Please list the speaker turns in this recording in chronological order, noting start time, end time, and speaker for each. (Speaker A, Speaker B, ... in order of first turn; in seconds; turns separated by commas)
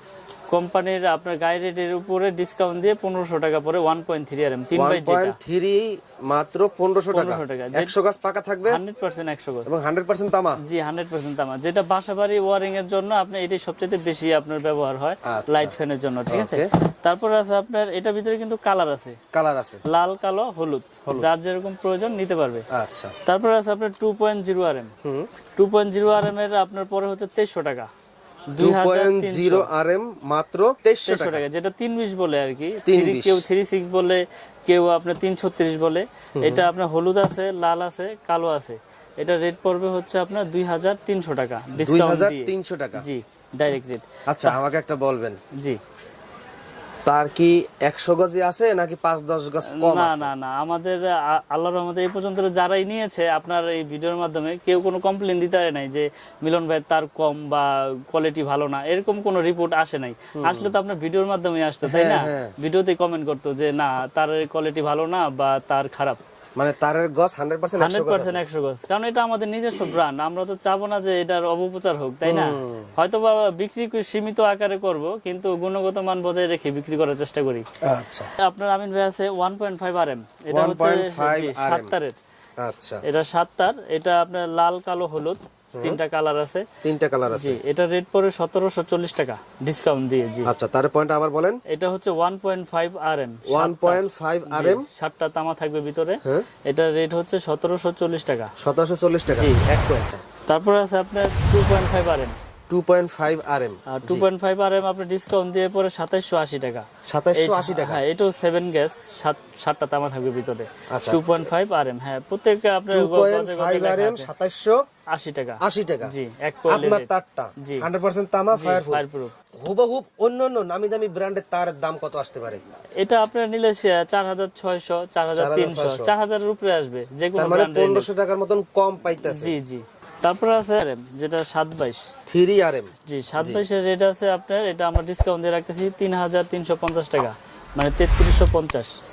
Speaker A: 0.5-5.4, Speaker B: 4.7-8.8, Speaker A: 7.1-7.9, Speaker A: 8.7-9.7, Speaker B: 9.7-10.6, Speaker A: 10.6-19.2, Speaker B: 15.2-15.7, Speaker B: 16.3-16.7, Speaker B: 19.3-19.8, Speaker A: 19.8-22.6, Speaker B: 22.7-23.1, Speaker A: 23.2-24.9, Speaker A: 25.6-27.9, Speaker A: 28.5-29.7, Speaker B: 28.6-31.4, Speaker A: 31.0-44.6, Speaker B: 32.9-33.4, Speaker B: 36.4-36.7, Speaker B: 41.8-43.0, Speaker B: 44.3-45.4, Speaker A: 45.5-45.8, Speaker B: 47.0-50.3, Speaker A: 49.6-66.2, Speaker B: 60.4-60.7, Speaker B: 61.8-62.5, Speaker B: 66.6-68.4, Speaker A: 67.8-77.6, Speaker B: 72.2-72.9, Speaker B: 77.8-78.3, Speaker A: 78.4-82.2, Speaker B: 80.5-81.9, Speaker B: 82.6-83.0, Speaker A: 83.0-86.7, Speaker B: 86.8-87.6, Speaker A: 87.3-90.5, Speaker B: 90.5-91.6, Speaker A: 91.7-98.5, Speaker B: 93.5-94.8, Speaker B: 98.6-99.6, Speaker A: 99.3-102.4, Speaker B: 102.7-104.3, Speaker A: 103.9-114.3, Speaker B: 107.0-108.0, Speaker B: 110.9-111.5, Speaker B: 112.9-114.8, Speaker A: 115.1-117.1, Speaker B: 115.6-116.1, Speaker B: 116.7-119.0, Speaker A: 117.6-117.9, Speaker A: 118.5-119.3, Speaker B: 119.6-122.6, Speaker A: 123.0-128.1, Speaker B: 125.3-126.1, Speaker B: 127.3-129.5, Speaker A: 129.2-132.1, Speaker B: 132.3-133.6, Speaker A: 133.1-138.9